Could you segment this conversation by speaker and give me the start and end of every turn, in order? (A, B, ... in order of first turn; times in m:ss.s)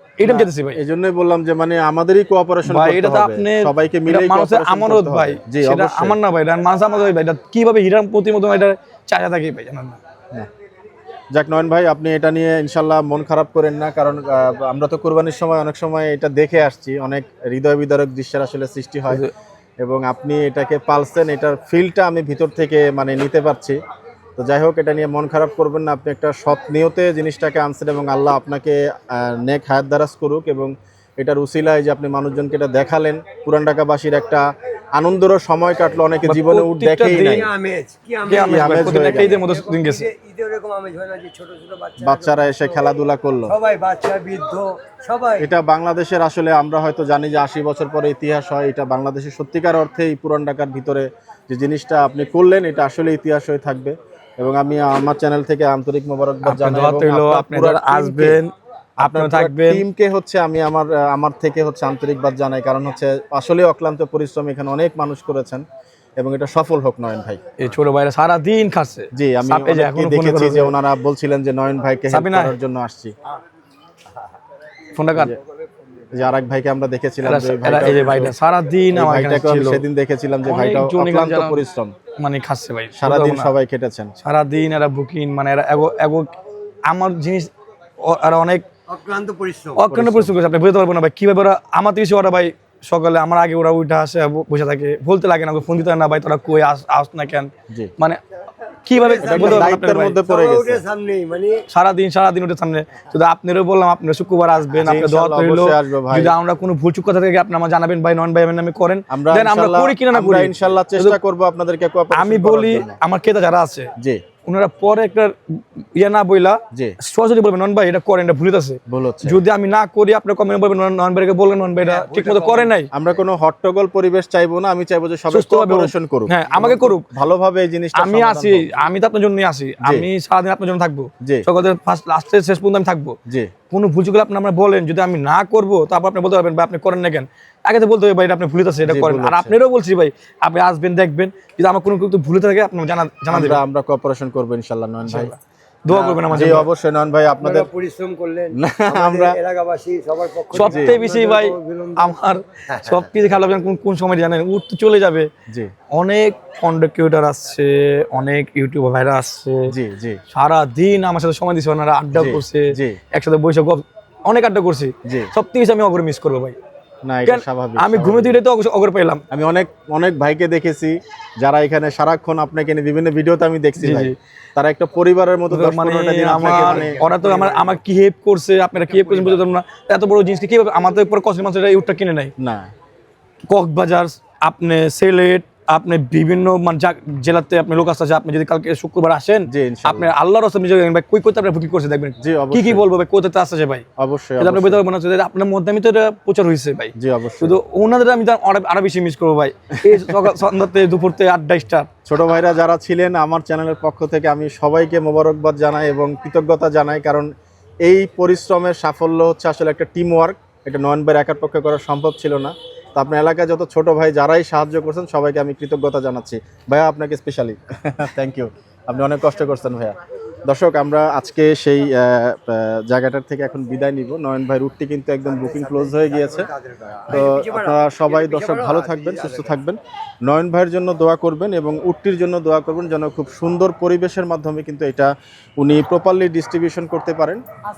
0:00.2-0:00.8 A
0:00.2-0:06.2 B
0:02.6-0:10.0 A
0:11.3-0:19.3 B
0:19.8-0:23.8 B
0:24.4-0:34.4 B
0:35.0-0:37.5 B
0:36.3-0:37.5 A
0:37.2-0:42.9 C
0:38.3-0:40.1 A
0:38.4-0:39.4 B
0:42.0-0:43.6 B
0:43.5-0:45.5 C
0:45.4-0:58.4 B
0:56.4-0:59.8 A
0:59.0-1:05.6 B
1:06.2-1:07.4 B
1:07.6-1:10.8 A
1:09.2-1:13.2 B
1:12.1-1:12.6 A
1:15.0-1:15.4 A
1:16.1-1:18.4 B
1:17.2-1:19.8 A
1:18.9-1:22.0 B
1:20.4-1:21.6 A
1:22.2-1:23.5 A
1:23.0-1:24.1 B
1:24.2-1:26.3 A
1:26.9-1:28.6 A
1:28.9-1:29.8 C
1:29.8-1:38.2 A
1:29.9-1:30.3 B
1:38.8-1:40.2 A
1:39.0-1:41.6 C
1:39.2-1:40.8 B
1:41.7-1:51.2 A
1:44.7-1:46.4 B
1:49.1-1:53.0 B
1:52.1-1:53.9 A
1:54.5-2:02.9 A
1:58.9-1:59.4 B
2:01.8-2:02.8 C
2:02.9-2:08.9 B
2:05.3-2:07.1 A
2:08.0-2:13.2 A
2:09.8-2:10.1 B
2:13.7-2:23.6 A
2:18.8-2:19.6 B
2:23.3-2:25.3 B
2:25.1-2:26.7 A
2:25.9-2:27.7 B
2:25.9-2:26.2 C
2:27.4-2:33.0 C
2:28.6-2:29.4 B
2:30.6-2:31.0 B
2:30.6-2:35.3 A
2:35.9-2:39.7 A
2:39.7-2:40.2 B
2:40.3-2:46.6 A
2:42.1-2:43.0 B
2:47.0-2:48.4 B
2:47.3-2:49.2 A
2:49.3-2:57.7 B
2:53.8-2:54.2 A
2:55.5-3:02.3 A
2:56.4-2:57.4 C
3:02.4-3:02.7 B
3:03.5-3:13.9 A
3:09.5-3:10.1 B
3:12.2-3:12.8 B
3:14.0-3:14.8 B
3:14.4-3:21.9 A
3:17.0-3:17.6 B
3:19.9-3:20.2 B
3:22.1-3:27.3 B
3:27.8-3:46.5 B
3:45.2-3:49.6 C
3:47.1-3:57.4 B